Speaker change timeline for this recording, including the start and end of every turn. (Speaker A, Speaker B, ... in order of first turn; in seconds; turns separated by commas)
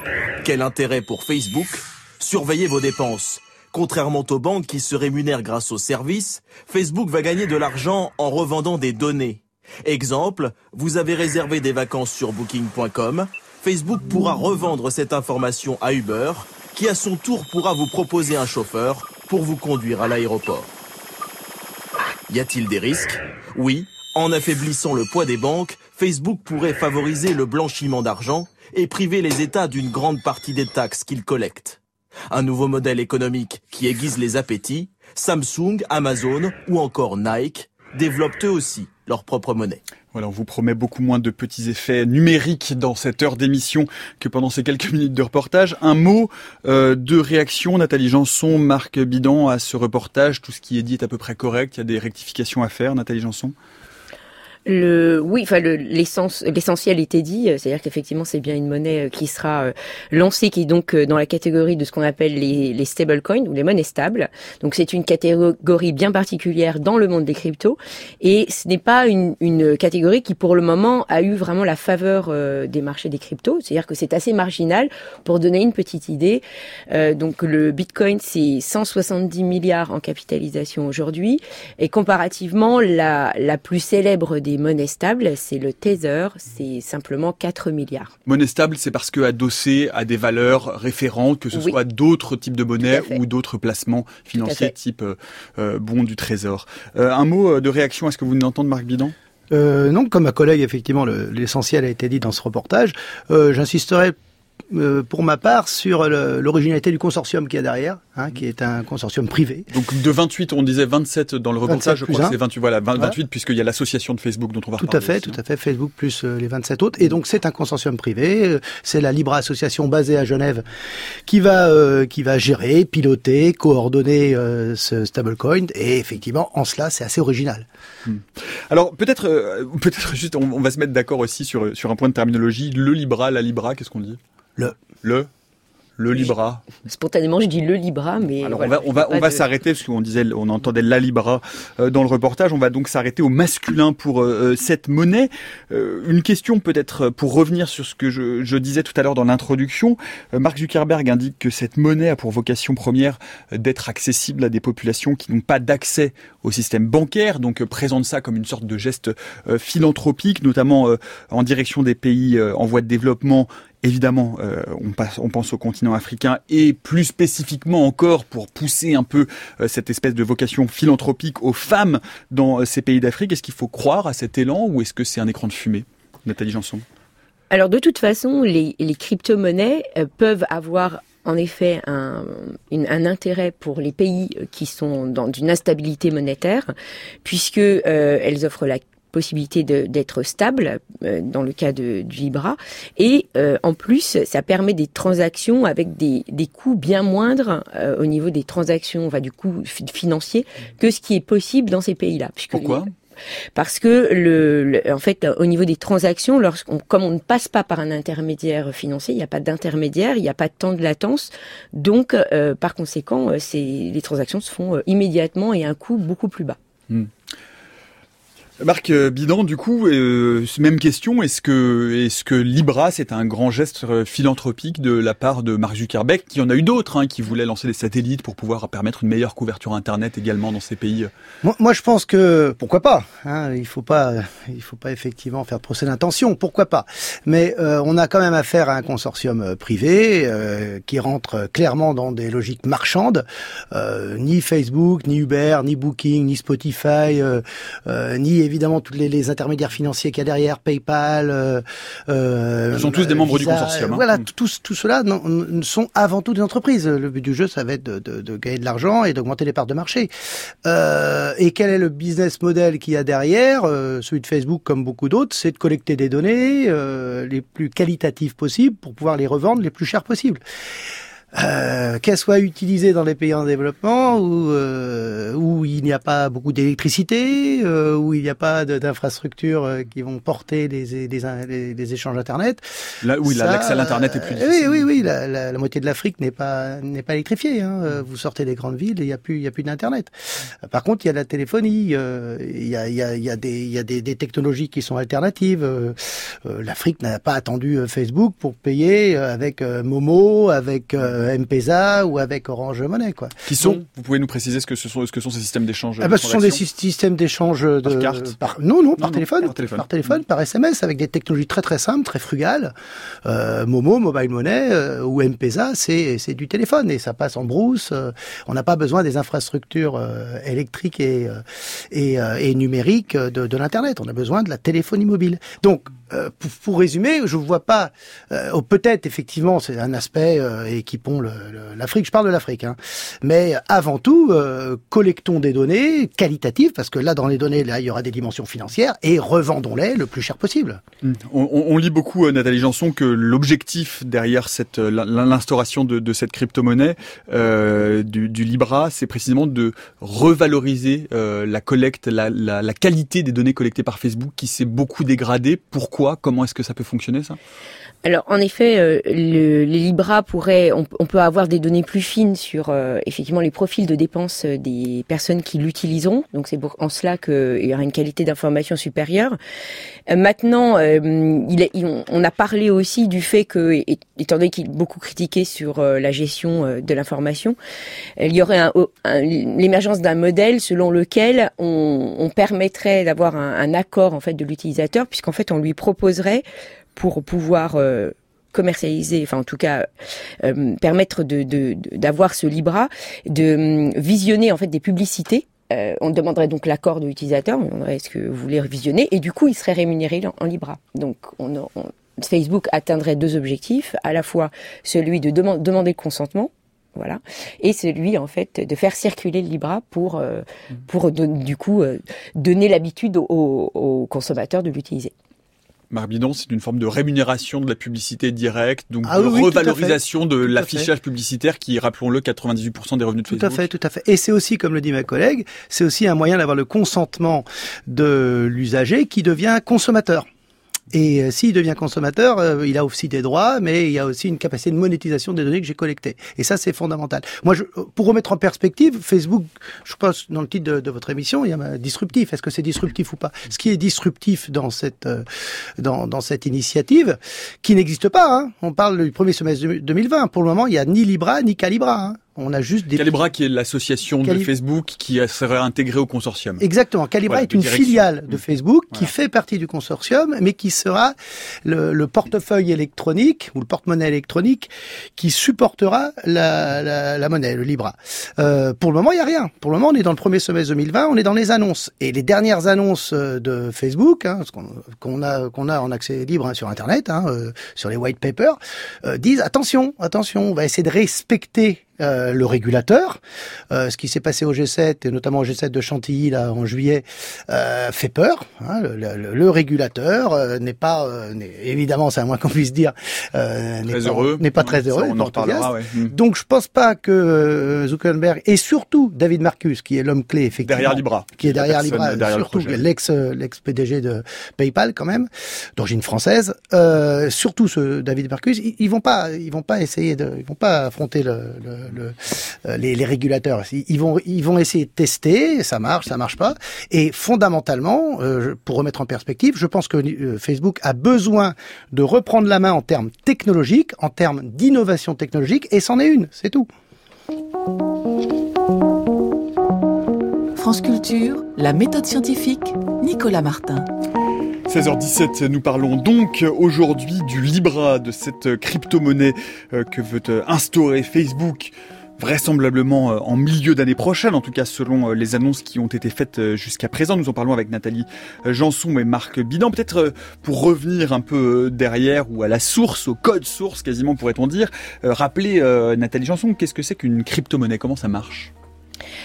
Speaker A: 0.4-20.7, Speaker A: 22.3-31.8, Speaker A: 32.3-39.8, Speaker B: 40.1-53.5, Speaker C: 54.7-88.1, Speaker B: 88.3-99.2, Speaker C: 92.9-93.2, Speaker C: 94.3-94.7, Speaker D: 99.5-104.2, Speaker D: 104.7-109.7, Speaker B: 109.7-115.4, Speaker D: 111.7-112.4, Speaker D: 114.8-120.7, Speaker D: 121.3-127.7, Speaker B: 128.1-134.2, Speaker B: 134.8-135.3, Speaker B: 136.0-136.7, Speaker C: 136.8-139.4, Speaker B: 138.4-176.8, Speaker C: 177.5-186.7, Speaker C: 187.2-202.8, Speaker B: 202.5-202.9, Speaker C: 203.6-216.6, Speaker B: 218.6-231.1, Speaker D: 231.4-260.1, Speaker B: 252.7-254.2, Speaker D: 260.6-270.4, Speaker D: 271.3-282.6, Speaker B: 283.0-284.8, Speaker D: 283.2-290.1, Speaker D: 290.6-303.8, Speaker B: 303.4-306.6, Speaker D: 306.0-312.7, Speaker B: 307.9-308.4, Speaker B: 309.0-309.9, Speaker D: 313.2-340.8, Speaker B: 341.0-357.4, Speaker C: 358.0-369.4, Speaker C: 370.1-377.6, Speaker C: 378.2-386.4, Speaker C: 387.0-389.9, Speaker C: 390.4-415.1, Speaker B: 415.9-423.6, Speaker D: 419.1-420.9, Speaker D: 423.3-430.3, Speaker D: 430.9-445.3, Speaker D: 445.8-453.1, Speaker B: 452.9-456.6, Speaker D: 456.6-483.2, Speaker B: 457.3-458.1, Speaker D: 483.7-526.7, Speaker B: 493.9-496.1, Speaker B: 500.6-502.9, Speaker E: 530.6-533.9, Speaker B: 534.7-558.5